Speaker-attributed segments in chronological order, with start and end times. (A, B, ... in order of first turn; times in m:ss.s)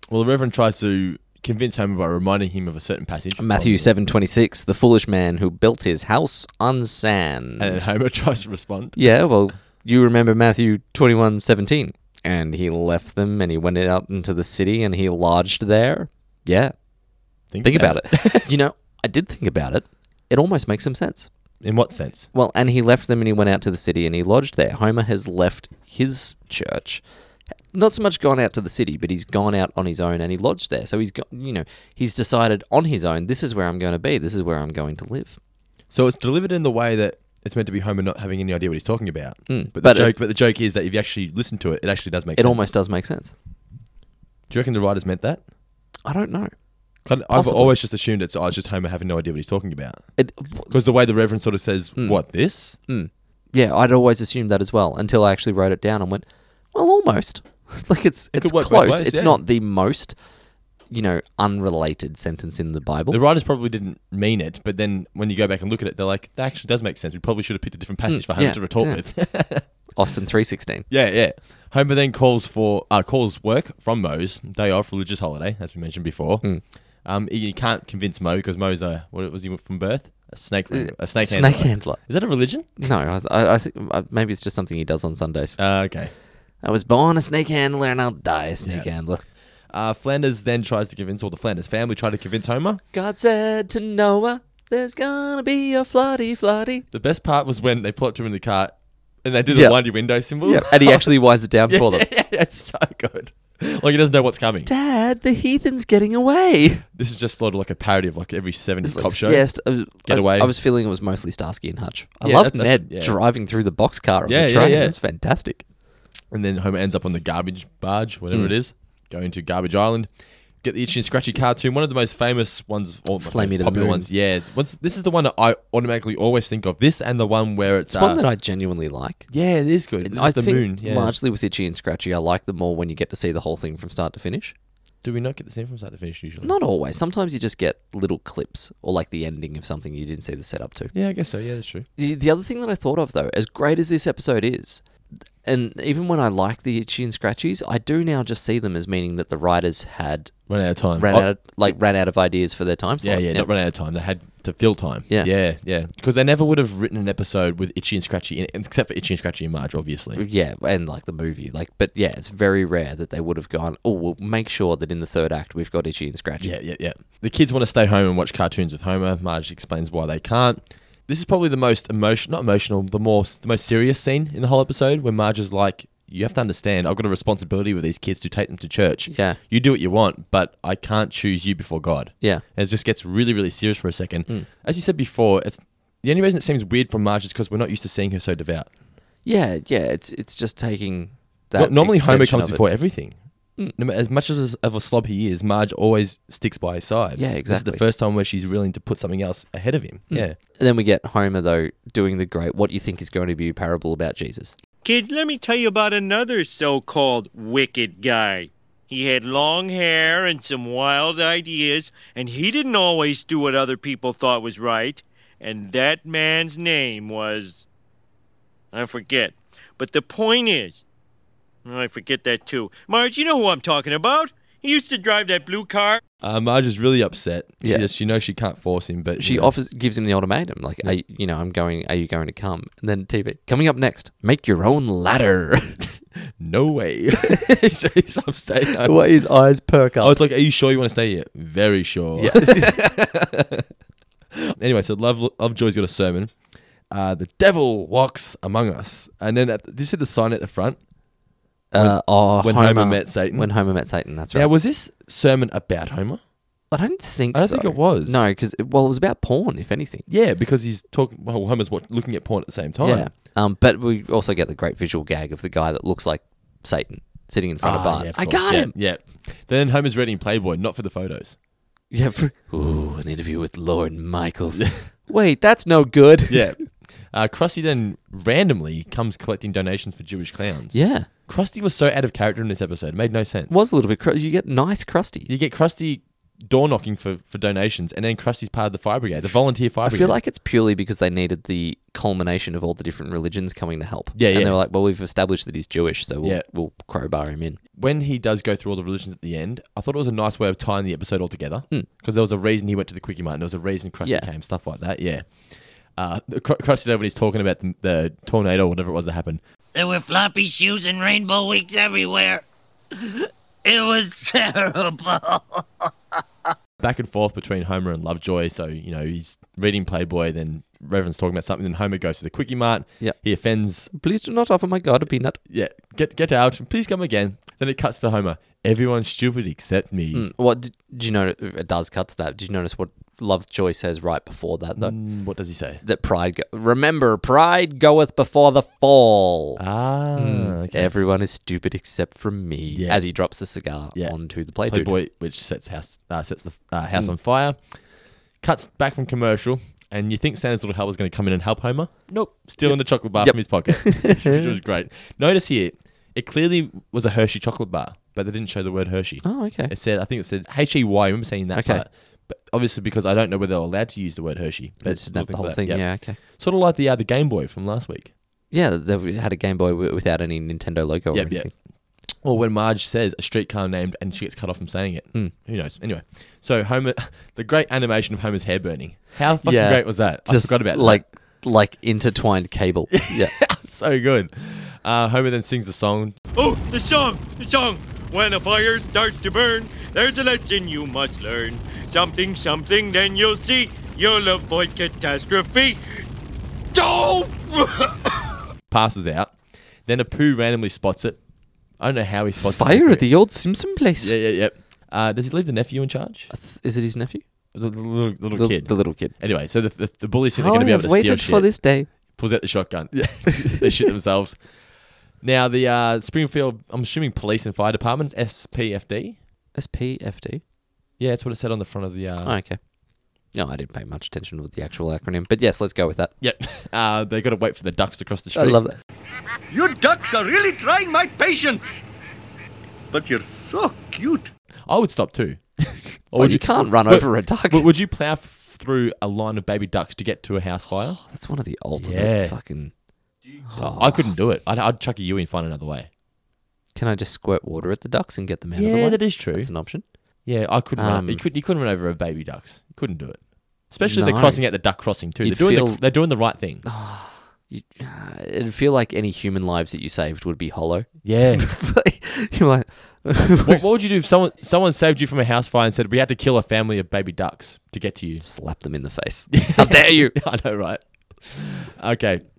0:00.1-0:03.9 A
0:03.4-0:07.9 B
0:07.6-0:09.0 A
0:09.0-0:16.7 B
0:17.5-0:18.5 A
0:17.6-0:21.3 B
0:21.6-0:22.3 A
0:22.3-0:27.0 B
0:27.7-0:35.4 B
0:35.9-0:42.7 A
0:39.5-0:40.2 B
0:42.4-0:43.3 B
0:44.5-0:45.4 A
0:46.0-0:46.5 B
0:47.0-0:50.1 A
0:47.3-0:47.7 B
0:50.2-0:50.7 B
0:50.6-0:52.8 A
0:52.0-0:52.2 B
0:52.9-1:00.2 B
0:58.3-0:59.4 A
1:00.9-1:03.2 B
1:03.1-1:09.7 A
1:08.1-1:10.9 B
1:10.9-1:22.7 A
1:20.7-1:22.2 B
1:22.8-1:25.6 B
1:25.6-1:26.1 A
1:26.6-1:29.2 B
1:28.6-1:28.9 A
1:29.7-1:32.8 A
1:32.9-1:36.9 B
1:36.9-1:41.1 A
1:39.5-1:39.8 B
1:40.4-1:42.1 B
1:41.7-1:44.7 A
1:44.6-1:46.8 B
1:46.9-1:50.5 A
1:48.8-1:55.6 B
1:52.2-1:53.2 A
1:54.2-1:55.0 A
1:56.3-2:00.1 A
2:00.6-2:08.2 A
2:03.2-2:04.1 B
2:07.9-2:09.3 B
2:09.3-2:11.2 A
2:10.0-2:14.5 B
2:15.0-2:16.6 A
2:16.4-2:20.9 B
2:20.9-2:21.9 A
2:22.0-2:24.8 B
2:25.4-2:33.5 B
2:30.5-2:31.7 A
2:33.0-2:40.2 A
2:40.2-2:46.6 B
2:46.4-3:08.7 A
2:59.1-2:59.4 B
3:09.2-3:12.7 B
3:11.6-3:20.4 A
3:17.2-3:17.8 B
3:20.1-3:24.6 B
3:24.8-3:37.6 C
3:38.7-3:40.8 C
3:41.6-3:46.0 C
3:46.2-3:49.5 A
3:47.6-3:47.9 B
3:49.2-3:55.8 B
3:56.2-3:59.1 A
3:58.8-4:00.2 B
4:00.0-4:03.7 A
4:02.2-4:02.8 B
4:04.4-4:06.4 A
4:06.9-4:10.8 A
4:11.7-4:14.5 B
4:11.8-4:13.5 A
4:14.3-4:16.2 A
4:16.7-4:20.1 B
4:17.3-4:18.2 A
4:20.1-4:23.1 A
4:22.8-4:28.7 B
4:27.6-4:31.4 A
4:31.9-4:36.6 B
4:36.3-4:43.6 A
4:40.7-4:41.1 B
4:43.5-4:45.3 B
4:45.3-4:50.2 A
4:49.8-4:57.6 B
4:54.1-4:54.6 A
4:57.7-5:09.4 A
5:09.7-5:12.4 D
5:13.0-5:15.6 D
5:16.8-5:23.9 A
5:23.9-5:25.4 B
5:25.5-5:30.3 A
5:30.1-5:35.0 B
5:34.8-5:35.8 A
5:35.8-5:39.6 B
5:39.6-5:40.9 A
5:40.2-5:45.0 B
5:42.7-5:43.1 A
5:44.0-6:08.1 A
5:52.6-5:54.6 B
5:59.2-5:59.7 B
6:01.5-6:01.8 B
6:04.8-6:06.2 B
6:08.5-6:11.5 B
6:11.1-6:11.5 A
6:12.2-6:21.0 A
6:19.4-6:23.4 B
6:22.9-6:26.2 A
6:26.4-6:35.8 C
6:36.7-6:38.3 C
6:38.7-6:41.2 A
6:41.8-6:43.1 A
6:42.4-6:44.2 B
6:44.0-6:46.3 A
6:46.3-6:47.2 B
6:47.5-6:54.5 A
6:48.3-6:49.1 B
6:50.4-6:52.2 B
6:52.9-6:53.7 B
6:55.2-6:59.2 A
6:59.6-7:00.4 B
7:01.0-7:02.4 A
7:02.2-7:02.6 B
7:03.3-7:06.1 B
7:06.2-7:08.6 A
7:08.4-7:08.8 B
7:09.5-7:11.8 E
7:12.9-7:14.3 E
7:14.7-7:21.0 A
7:16.1-7:17.7 B
7:20.9-7:22.7 B
7:21.8-7:22.4 A
7:23.5-7:24.2 B
7:23.5-7:25.9 A
7:26.8-7:29.8 B
7:28.5-7:29.5 A
7:30.2-7:36.6 A
7:30.8-7:31.2 B
7:33.8-7:34.7 B
7:35.2-7:35.9 B
7:36.6-7:43.7 B
7:41.0-7:41.5 A
7:43.4-7:48.2 A
7:48.2-7:50.2 B
7:49.3-7:52.2 A